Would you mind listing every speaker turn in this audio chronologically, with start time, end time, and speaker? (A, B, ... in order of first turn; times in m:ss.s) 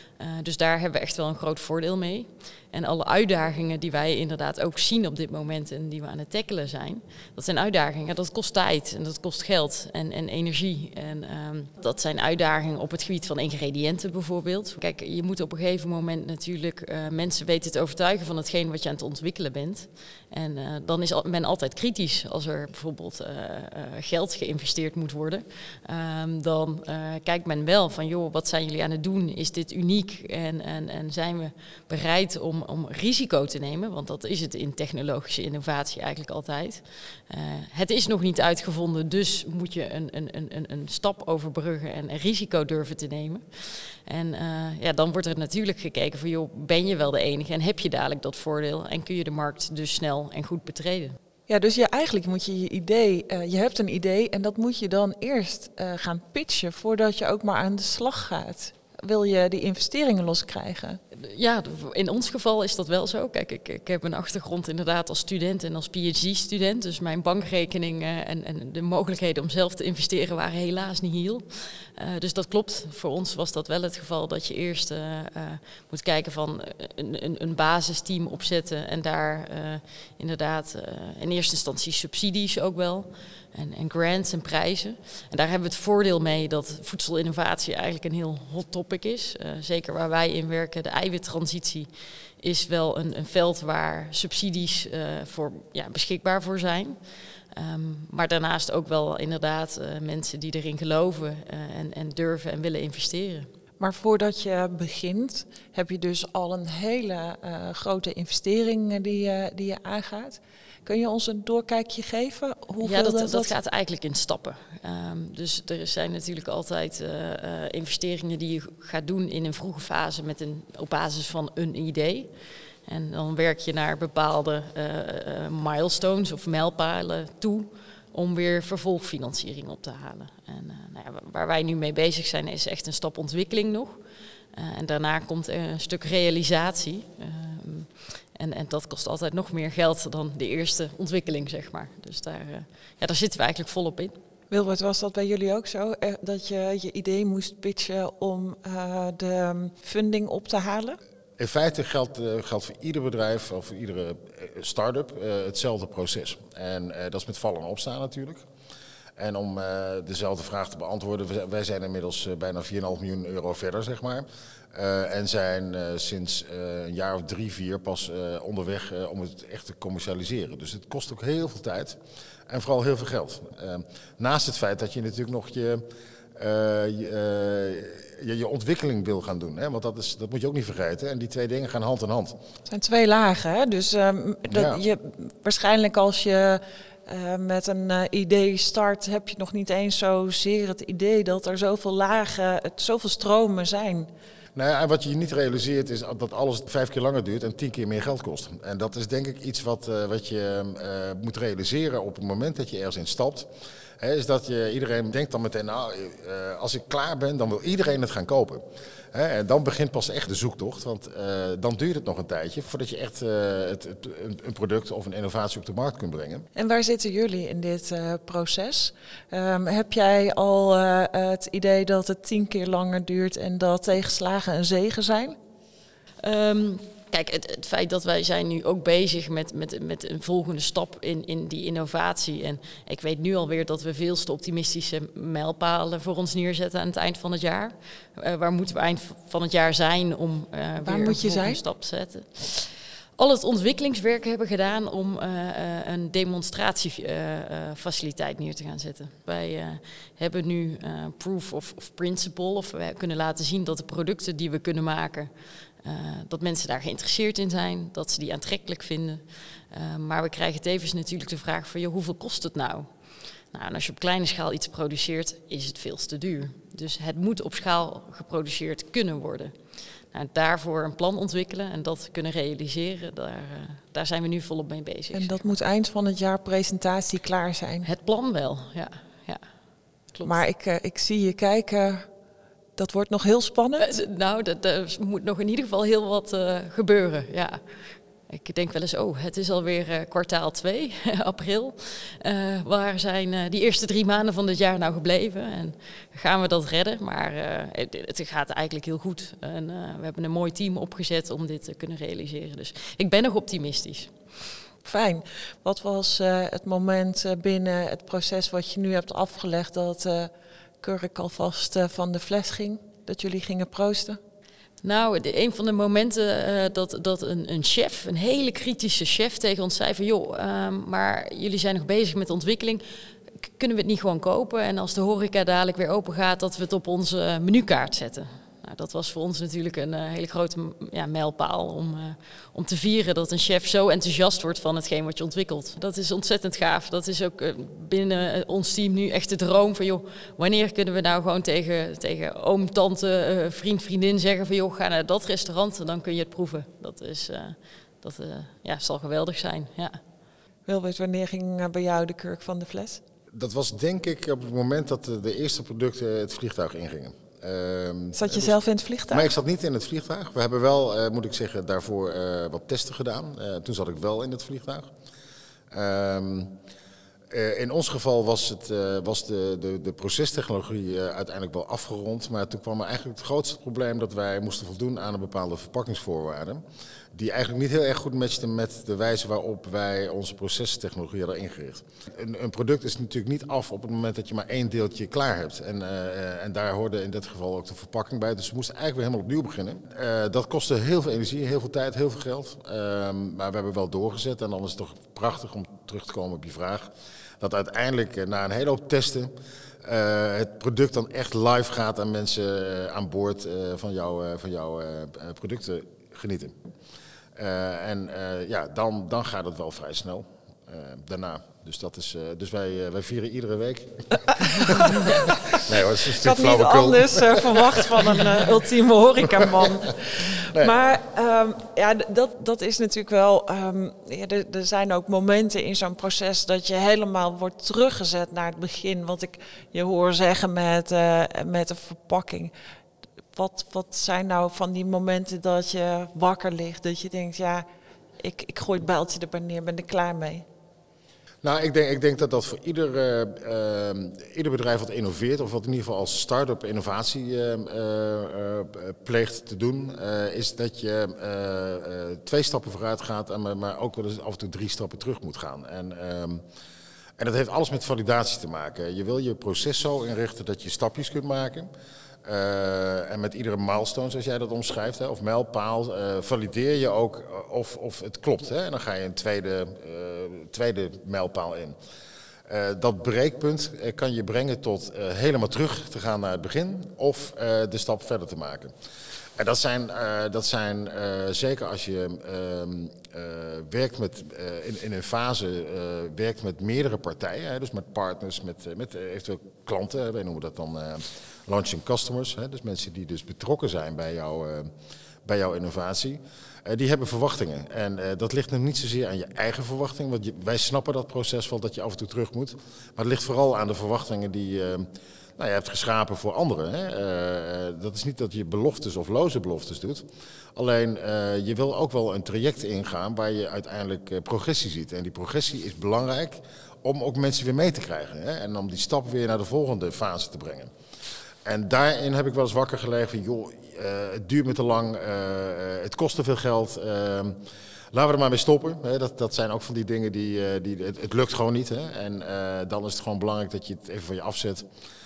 0:00.2-0:51.2 A
0:51.5-1:01.0 B
1:01.1-1:37.0 A
1:37.5-1:43.5 A
1:43.8-1:53.6 B
1:52.8-2:02.3 A
2:02.9-2:14.0 A
2:14.5-2:24.2 A
2:24.5-2:31.0 B
2:31.4-2:38.4 C
2:39.2-2:55.8 C
2:56.4-3:02.4 C
3:02.7-3:14.1 B
3:04.5-3:04.8 C
3:14.6-3:36.5 C
3:36.6-3:45.4 B
3:46.2-4:15.3 A
4:00.8-4:01.6 B
4:15.8-4:22.9 A
4:23.5-4:29.6 A
4:30.1-4:35.5 A
4:35.1-4:37.9 B
4:37.8-4:39.4 A
4:40.1-4:40.4 A
4:40.2-4:42.1 B
4:42.8-4:43.9 B
4:43.8-4:47.6 A
4:48.3-5:04.1 A
5:04.8-5:14.2 B
5:14.8-5:22.8 A
5:23.4-5:50.0 A
5:50.7-5:53.0 B
5:53.3-5:58.6 C
5:58.2-5:59.3 B
5:59.1-6:04.9 C
6:05.7-6:06.6 C
6:07.3-6:39.3 C
6:39.8-6:46.6 C
6:47.4-6:58.5 C
6:54.4-7:12.5 B
6:59.2-7:00.8 C
7:13.3-7:17.6 B
7:18.2-7:20.5 B
7:21.4-7:36.4 C
7:37.2-7:41.7 C
7:42.2-7:51.8 C
7:52.5-7:58.7 C
7:59.4-8:14.7 C
8:15.2-8:40.7 C
8:41.4-8:47.4 C
8:47.9-8:54.7 C